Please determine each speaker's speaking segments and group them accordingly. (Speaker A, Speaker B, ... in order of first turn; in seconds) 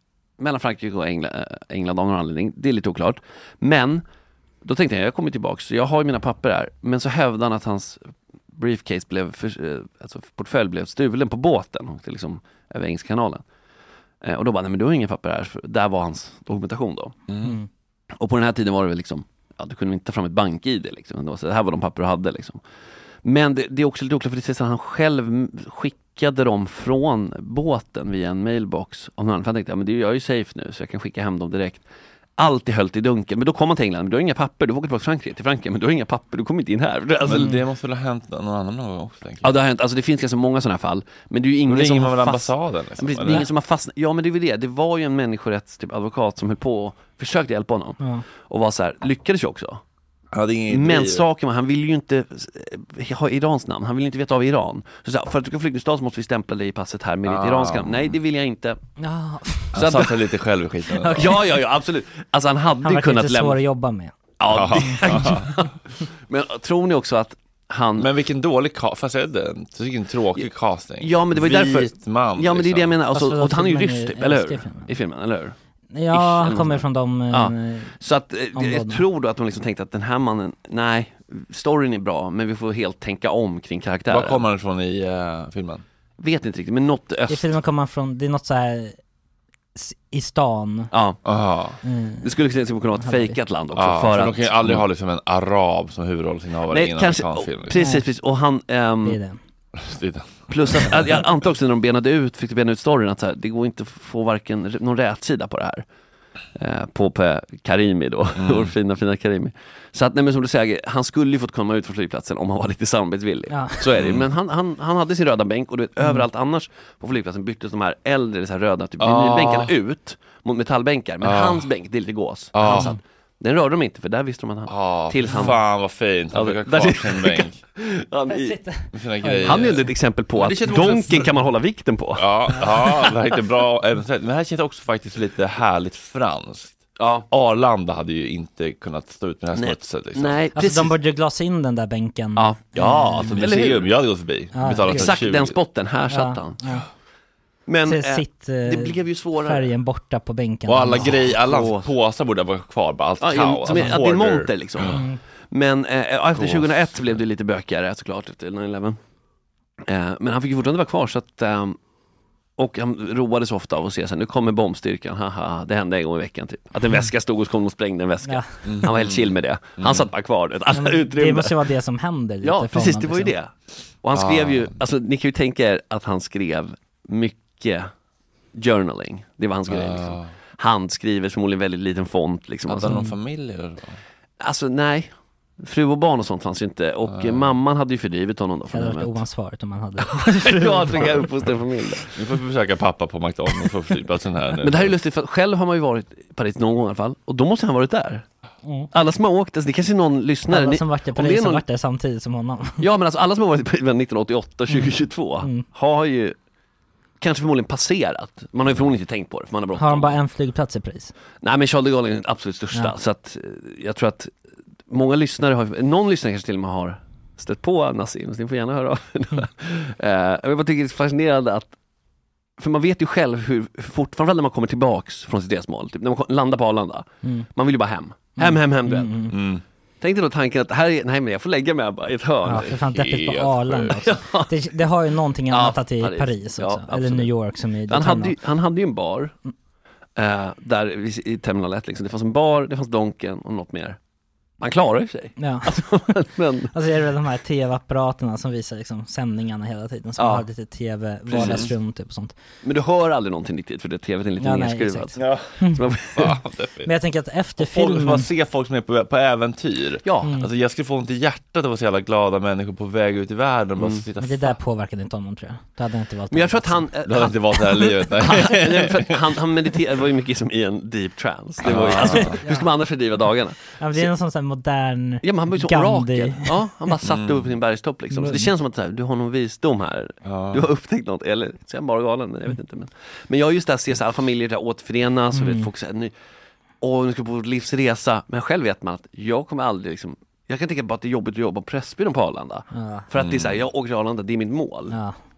Speaker A: 0.4-4.0, 4.6-8.0, 8.6-13.4, 14.2-17.1, 18.2-22.6, 23.2-31.8, 32.4-37.6, 39.4-49.8, 50.7-58.8, 59.8-60.2, 61.1-63.6, 64.4-68.1, 71.0-75.5, 76.1-84.4, 86.2-87.5, 90.9-91.2, 92.2-94.8, 96.7-99.2, 100.5-105.8, 106.6-125.6, 126.3-128.6, 129.4-132.3, 137.0-137.3, 139.6-141.0, 142.4-143.9, 144.8-146.6, 147.7-149.7, 151.3-151.9, 153.2-159.0, 159.9-161.8, 162.6-171.6, 172.4-173.5, 174.0-177.9, 178.6-183.0, 184.4-189.2, 190.1-192.2, 194.6-198.2, 198.9-201.6, 202.8-206.4, 207.2-210.2, 211.4-214.3, 214.9-221.7, 222.6-229.3, 230.0-233.1, 233.8-234.5, 235.5-237.3, 237.9-239.3, 240.2-244.0, 244.6-246.7, 250.2-250.5, 251.3-251.7, 252.6-256.3, 260.1-260.3, 263.8-264.1, 266.3-274.1, 275.2-286.1, 286.8-295.0
Speaker B: 17.3-17.6, 37.2-39.6, 41.7-43.5, 50.3-51.2, 57.3-58.1, 59.7-61.5, 64.5-65.5, 68.0-73.0, 84.1-85.8, 91.2-91.8, 93.7-97.8, 99.7-101.0, 108.4-108.7, 114.0-114.3, 119.0-119.7, 121.2-121.6, 122.5-122.9, 124.7-127.6, 128.9-131.4, 132.2-140.4, 143.0-145.6, 150.7-155.0, 156.3-157.2, 168.7-170.1, 174.1-174.8, 179.7-180.3, 182.7-184.0, 187.1-187.6, 192.2-195.0, 229.3-229.6, 232.7-233.9, 251.3-251.7, 255.2-255.4, 256.1-256.9, 257.6-264.6, 267.1-269.2, 271.6-272.4, 277.0-277.5, 280.2-280.7, 293.2-293.6
Speaker C: 17.4-17.7, 59.0-59.8, 61.0-61.4, 62.8-64.1, 73.1-74.9, 75.9-78.0, 78.5-79.0, 87.3-89.0, 89.8-90.9, 91.8-92.3, 93.0-93.4, 97.8-98.0, 99.0-99.4, 113.5-113.8, 122.7-122.9, 128.3-129.7, 132.6-133.1, 140.6-143.4, 144.5-145.2, 146.1-146.9, 147.9-151.3, 154.9-155.2, 170.7-173.3, 188.7-191.2, 198.7-198.9, 200.5-202.8, 209.8-211.1, 228.4-229.4, 232.4-238.4, 245.4-245.8, 246.7-252.3, 254.4-255.8, 256.9-258.3, 260.2-260.5, 264.2-266.8, 271.9-272.7, 273.8-276.6, 278.1-278.5, 285.3-285.7, 292.7-293.1, 294.9-295.2